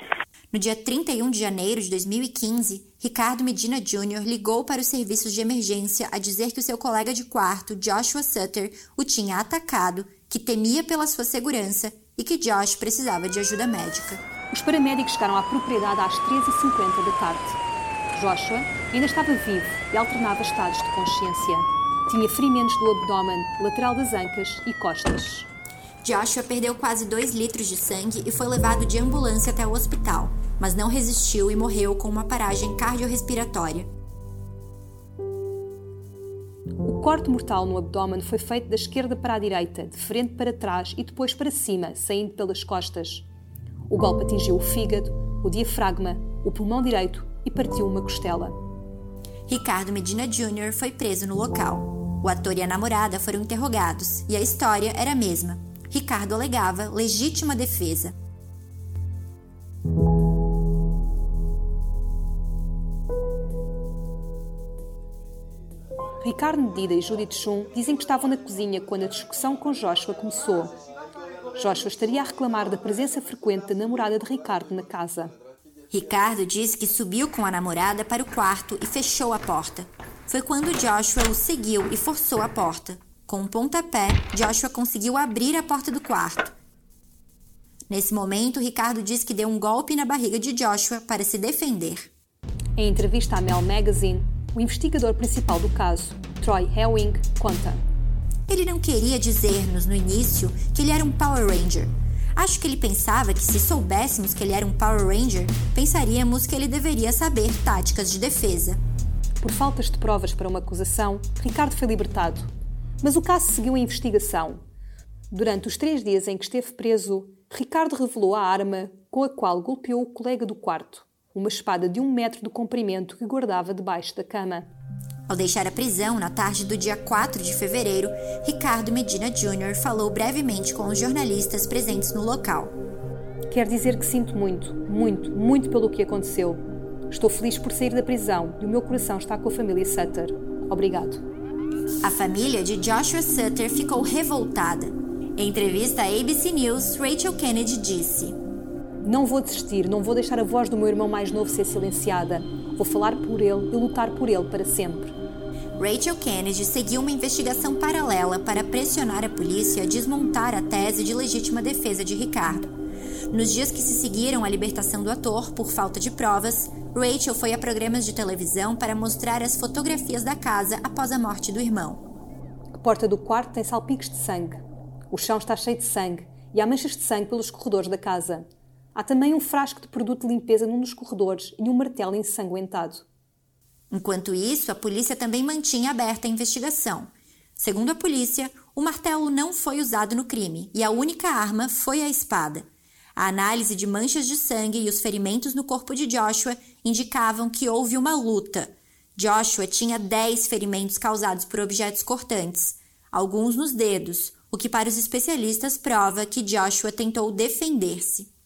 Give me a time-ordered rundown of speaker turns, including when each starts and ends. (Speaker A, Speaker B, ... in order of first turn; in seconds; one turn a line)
Speaker A: 0.5-14.2
Speaker B: 14.5-17.6
Speaker B: 18.1-25.5
Speaker A: 26.0-33.9
Speaker B: 36.8-43.3
Speaker B: 43.9-48.5
Speaker A: 49.5-58.1
Speaker B: 66.2-70.7
Speaker B: 71.6-75.3
Speaker A: 75.9-86.5
Speaker A: 87.9-92.1
Speaker B: 92.8-97.8
Speaker A: 98.5-108.8
Speaker B: 109.4-112.5
Speaker B: 113.0-114.6
Speaker B: 115.3-124.7
Speaker A: 125.3-132.7
Speaker B: 133.5-141.2
Speaker A: 142.0-148.4
Speaker B: 149.0-155.1
Speaker A: 155.8-162.7
Speaker A: 163.3-172.0
Speaker B: 172.8-183.1
Speaker A: 183.9-192.7
Speaker A: 193.2-208.3